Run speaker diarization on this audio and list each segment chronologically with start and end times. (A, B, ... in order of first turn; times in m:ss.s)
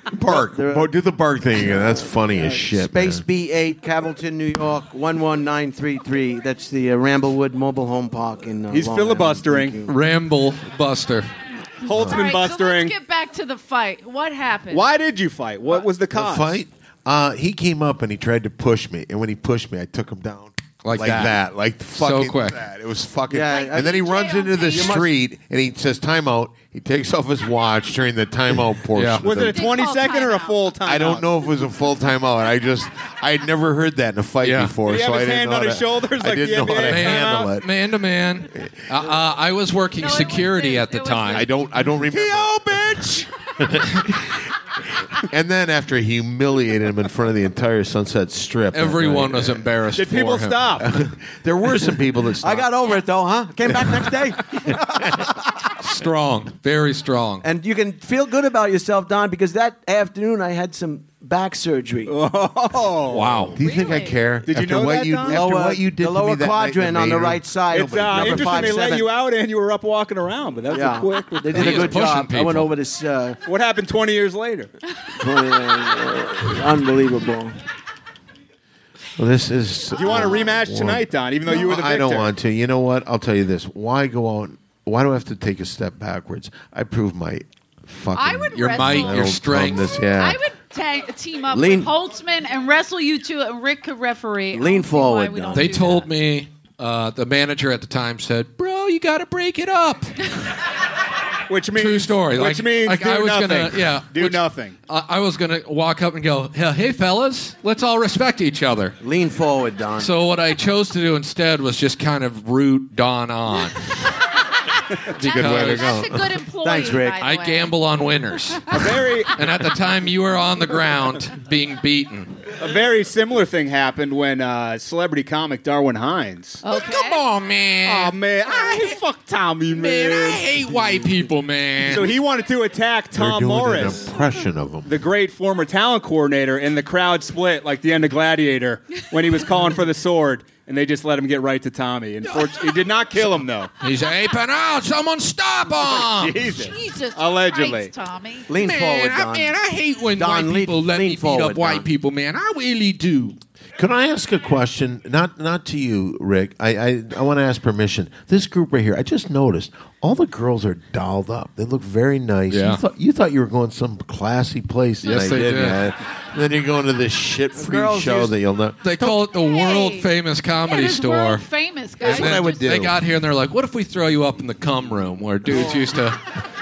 0:00.1-0:03.2 A
0:00.2-0:00.9 B
0:01.6-0:09.9 B
0:08.7-0:09.8 C
0:09.8-0:11.3 D
0:11.8-0:12.9 C
0:11.9-0:12.2 A
0:11.9-0:14.9 E
0:14.7-0:16.6 C
0:16.1-0:29.7 A
0:20.8-0:21.4 D
0:22.0-0:22.6 D
0:23.3-0:24.0 B
0:23.4-0:25.0 E
0:24.6-0:25.1 B
0:28.9-0:29.2 D
0:29.2-0:31.3 C
0:29.4-0:30.7 E
0:30.8-0:37.6 A
0:34.4-0:34.8 D
0:34.8-0:37.5 C
0:36.8-0:41.5 D
0:38.5-0:38.8 A
0:40.0-0:41.5 E
0:41.3-0:44.4 A
0:42.1-0:43.1 B
0:45.1-0:49.6 A
0:48.7-0:50.8 D
0:49.9-0:50.9 C
0:50.8-0:52.7 A
0:52.4-0:55.7 B
0:54.7-0:55.3 A
0:55.8-0:57.4 D
0:57.4-1:02.2 B
1:02.0-1:03.5 C
1:03.1-1:03.6 D
1:03.5-1:08.8 A
1:03.6-1:04.3 E
1:04.4-1:05.4 C
1:05.2-1:09.1 B
1:07.7-1:12.0 C
1:10.7-1:13.4 B
1:11.5-1:12.7 D
1:13.4-1:14.7 C
1:15.2-1:17.6 B
1:19.2-1:30.4 A
1:19.9-1:22.3 C
1:20.0-1:20.4 E
1:28.1-1:36.1 E
1:28.5-1:29.9 D
1:31.5-1:31.9 B
1:34.5-1:35.9 B
1:35.5-1:40.2 D
1:41.5-1:44.7 C
1:41.7-1:49.0 D
1:49.0-1:50.1 B
1:50.0-1:53.8 D
1:55.1-1:56.2 A
1:55.2-1:57.7 E
1:55.2-1:56.1 D
1:56.6-1:57.2 B
1:57.2-2:02.4 D
1:58.7-1:59.3 C
2:02.6-2:06.6 C
2:06.6-2:07.2 E
2:06.7-2:09.0 D
2:07.8-2:10.4 C
2:09.7-2:12.1 D
2:11.8-2:14.0 C
2:13.1-2:14.9 A
2:14.8-2:23.7 C
2:22.2-2:22.6 D
2:23.8-2:26.5 D
2:26.0-2:27.9 C
2:26.4-2:28.5 E
2:28.5-2:29.6 B
2:28.5-2:33.4 D
2:30.2-2:31.9 B
2:33.8-2:49.0 A
2:42.5-2:42.8 D
2:45.0-2:45.8 D
2:47.5-2:48.3 B
2:48.8-2:51.4 D
2:49.2-2:50.1 E
2:50.6-2:52.7 E
2:52.0-2:56.2 D
2:52.0-2:53.0 A